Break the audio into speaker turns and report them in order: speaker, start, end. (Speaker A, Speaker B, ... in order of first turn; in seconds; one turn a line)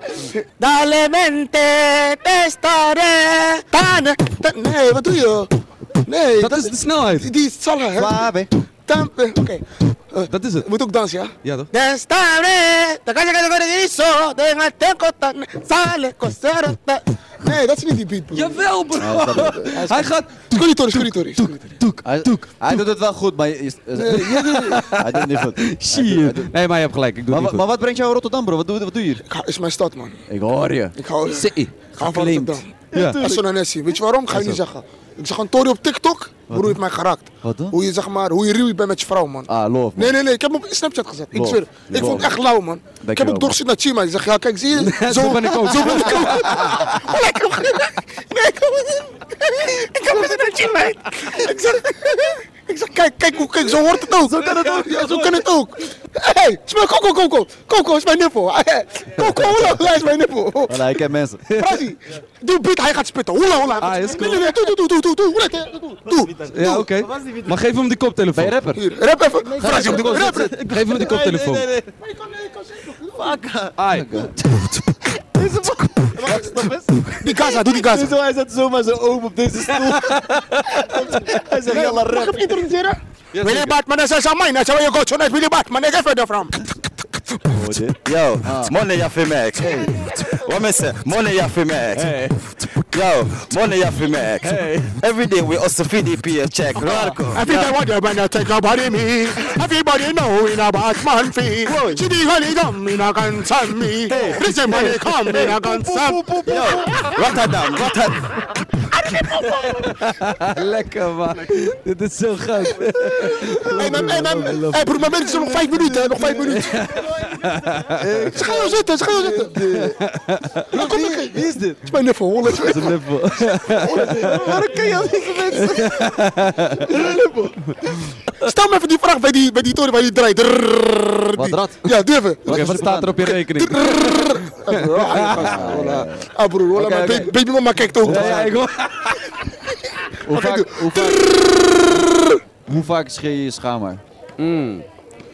Speaker A: 0.6-3.7
Speaker B: 3.7-5.5
Speaker B: 6.0-8.3
Speaker C: 6.4-7.3
Speaker D: 8.0-8.5
Speaker B: 8.9-11.3
Speaker C: 10.3-10.7
Speaker C: 11.4-11.7
Speaker A: 11.7-16.9
Speaker B: 15.4-18.7
Speaker C: 18.3-22.9
Speaker D: 19.0-20.1
Speaker B: 19.4-19.9
Speaker B: 20.5-21.8
Speaker D: 21.9-26.5
Speaker B: 24.0-24.9
Speaker C: 24.0-27.6
Speaker D: 27.3-29.2
Speaker B: 29.3-30.2
Speaker D: 30.3-30.9
Speaker B: 31.0-60.9
Speaker C: 31.3-31.7
Speaker D: 31.6-33.4
Speaker C: 32.9-33.2
Speaker C: 34.3-34.6
Speaker D: 36.5-36.8
Speaker D: 37.4-37.8
Speaker D: 39.5-40.1
Speaker D: 41.3-42.3
Speaker C: 41.9-42.3
Speaker D: 43.0-43.6
Speaker C: 44.7-46.8
Speaker D: 45.8-46.9
Speaker D: 54.3-55.2
Speaker C: 54.3-55.4
Speaker D: 60.7-61.4
Speaker C: 61.5-61.8
Speaker B: 61.5-66.9
Speaker C: 63.8-64.5
Speaker C: 66.5-68.6
Speaker D: 68.3-68.9
Speaker B: 68.7-71.2
Speaker D: 69.5-71.9
Speaker C: 69.7-71.7
Speaker B: 72.1-73.4
Speaker D: 73.1-82.6
Speaker C: 73.8-74.3
Speaker B: 76.3-76.5
Speaker B: 77.2-78.1
Speaker C: 79.7-81.1
Speaker B: 81.6-86.6
Speaker C: 83.3-83.7
Speaker D: 87.5-88.8
Speaker E: 88.0-92.1
Speaker D: 89.5-90.3
Speaker D: 91.9-92.8
Speaker E: 92.9-97.6
Speaker D: 94.4-94.9
Speaker D: 96.8-97.5
Speaker B: 96.8-107.5
Speaker D: 104.1-108.0
Speaker A: 105.8-106.2
Speaker C: 106.3-106.8
Speaker E: 107.2-108.1
Speaker B: 108.9-109.9
Speaker C: 109.8-115.5
Speaker D: 113.3-114.3
Speaker B: 113.3-117.2
Speaker D: 115.3-120.0
Speaker C: 116.2-118.5
Speaker B: 118.3-119.6
Speaker C: 119.5-120.8
Speaker D: 120.7-121.8
Speaker B: 120.7-123.0
Speaker C: 122.5-124.7
Speaker B: 123.7-125.6
Speaker D: 123.8-126.2
Speaker C: 125.5-127.0
Speaker B: 126.9-127.5
Speaker B: 128.3-138.6
Speaker D: 131.4-131.8
Speaker D: 132.4-133.2
Speaker C: 132.5-135.8
Speaker D: 135.3-137.3
Speaker D: 138.0-138.6
Speaker C: 138.0-139.3
Speaker D: 140.2-141.2
Speaker B: 140.3-142.3
Speaker D: 142.7-144.0
Speaker C: 144.4-144.9